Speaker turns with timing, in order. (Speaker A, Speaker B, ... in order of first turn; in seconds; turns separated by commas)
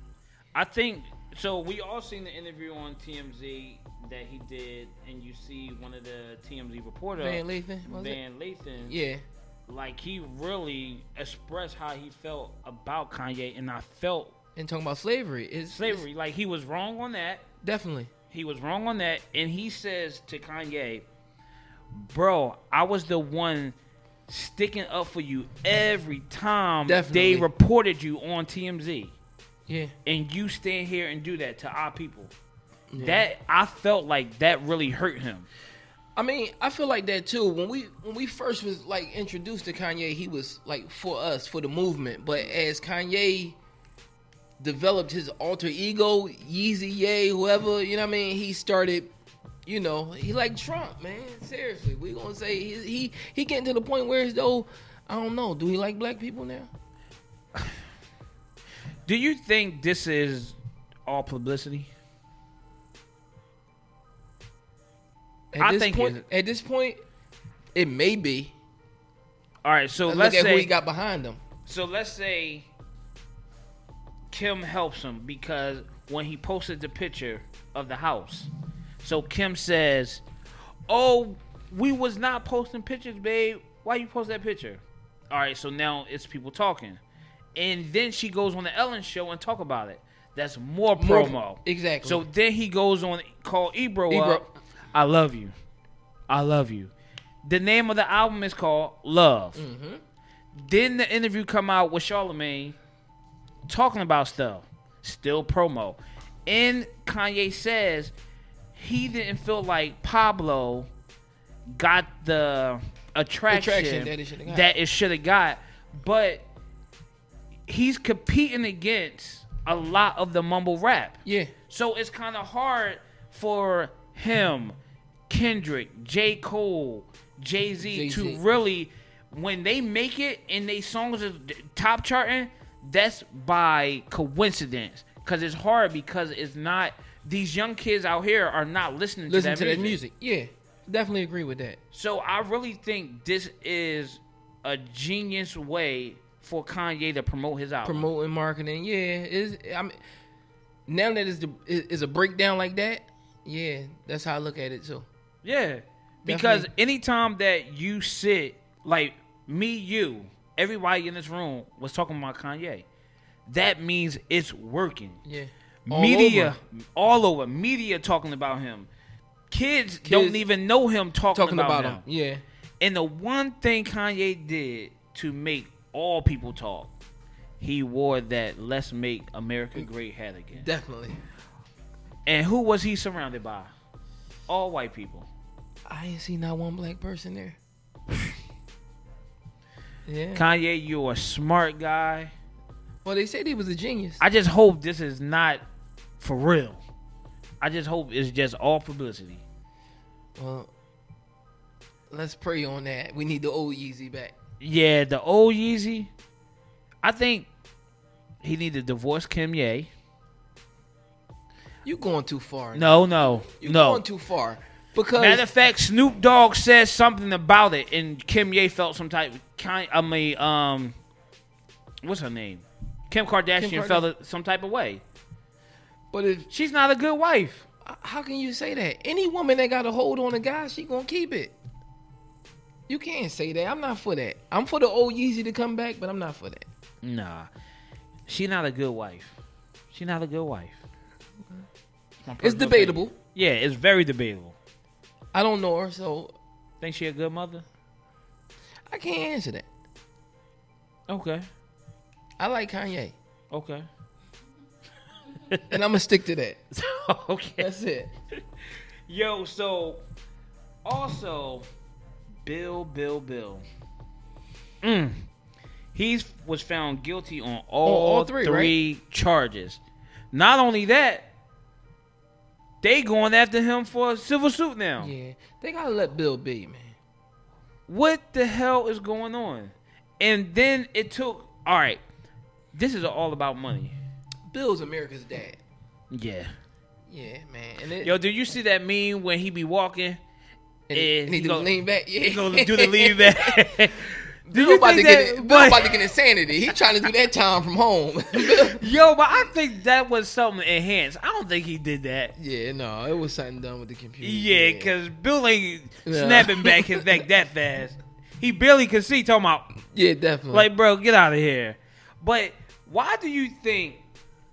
Speaker A: 0.5-9.0, Speaker B: 7.2-8.2, Speaker B: 8.8-9.2, Speaker A: 9.7-14.3, Speaker B: 14.6-16.0, Speaker A: 15.7-17.4, Speaker B: 17.6-18.1, Speaker A: 18.3-21.1, Speaker A: 21.9-23.8, Speaker A: 24.3-29.1, Speaker B: 26.9-27.5, Speaker B: 29.7-29.9, Speaker A: 30.1-32.3, Speaker B: 32.9-33.3, Speaker A: 33.0-35.5, Speaker B: 36.2-43.6, Speaker B: 44.6-49.1, Speaker B: 49.6-56.7, Speaker A: 59.1-61.9, Speaker B: 65.5-67.0, Speaker A: 65.6-66.2, Speaker B: 67.7-68.5, Speaker A: 69.6-70.7, Speaker B: 70.1-71.4, Speaker A: 71.7-72.7, Speaker A: 74.3-80.2, Speaker A: 80.9-87.0, Speaker A: 87.5-95.5, Speaker B: 91.0-92.2, Speaker B: 94.1-94.5, Speaker A: 96.3-96.9, Speaker A: 97.4-99.6, Speaker B: 99.5-100.0, Speaker A: 100.5-102.8, Speaker A: 103.7-108.1, Speaker A: 108.7-110.9, Speaker A: 111.7-116.5, Speaker B: 113.5-114.7, Speaker A: 117.7-124.8, Speaker B: 121.2-121.5, Speaker A: 125.3-140.0, Speaker B: 127.9-128.4, Speaker B: 139.3-141.8, Speaker A: 141.9-148.1, Speaker B: 147.8-150.0, Speaker B: 150.9-155.1, Speaker A: 155.4-162.9, Speaker B: 156.2-156.7, Speaker A: 163.5-165.2, Speaker B: 165.2-166.6, Speaker A: 165.9-168.9, Speaker A: 169.5-172.0, Speaker B: 170.0-170.5, Speaker B: 171.3-172.4, Speaker A: 172.8-176.9, Speaker A: 177.6-180.7, Speaker B: 180.5-181.2, Speaker A: 182.2-183.7, Speaker A: 184.5-185.3, Speaker B: 185.9-187.6, Speaker B: 190.1-190.4, Speaker A: 190.3-192.3, Speaker B: 193.1-194.2, Speaker A: 194.2-195.6, Speaker A: 196.2-196.8, Speaker A: 197.6-199.4, Speaker B: 200.4-200.7, Speaker B: 202.1-204.3, Speaker A: 204.6-206.1, Speaker A: 207.0-207.5, Speaker A: 208.4-209.9, Speaker B: 211.8-215.4, Speaker A: 212.7-214.0, Speaker A: 215.2-221.0, Speaker A: 222.0-225.0, Speaker B: 223.6-224.1, Speaker B: 226.1-226.5, Speaker A: 226.5-227.7, Speaker B: 227.8-231.6, Speaker B: 232.9-236.7, Speaker A: 237.0-237.5, Speaker A: 238.3-239.4, Speaker A: 239.9-240.8, Speaker A: 242.2-244.6, Speaker B: 242.4-243.1, Speaker B: 245.3-246.3, Speaker A: 246.8-247.6, Speaker B: 248.9-249.7, Speaker A: 251.1-251.5, Speaker B: 252.4-253.2, Speaker A: 253.5-253.9, Speaker B: 255.7-256.6, Speaker A: 256.8-257.7, Speaker B: 257.6-258.1, Speaker A: 259.1-260.0, Speaker A: 260.9-261.7, Speaker A: 262.4-263.6, Speaker A: 264.8-265.3, Speaker A: 265.9-269.8, Speaker B: 267.8-268.8, Speaker A: 270.3-271.3, Speaker A: 272.8-275.1, Speaker B: 275.0-277.0, Speaker A: 277.9-282.0, Speaker A: 282.7-284.0, Speaker B: 284.5-285.6, Speaker A: 286.1-286.5, Speaker B: 287.1-288.1, Speaker A: 288.0-290.2, Speaker B: 290.9-293.8, Speaker A: 290.9-296.0, Speaker B: 294.5-298.8, Speaker A: 298.4-302.3, Speaker B: 302.4-304.9, Speaker A: 304.2-309.7, Speaker B: 306.1-307.1, Speaker B: 309.9-310.7, Speaker A: 310.5-314.0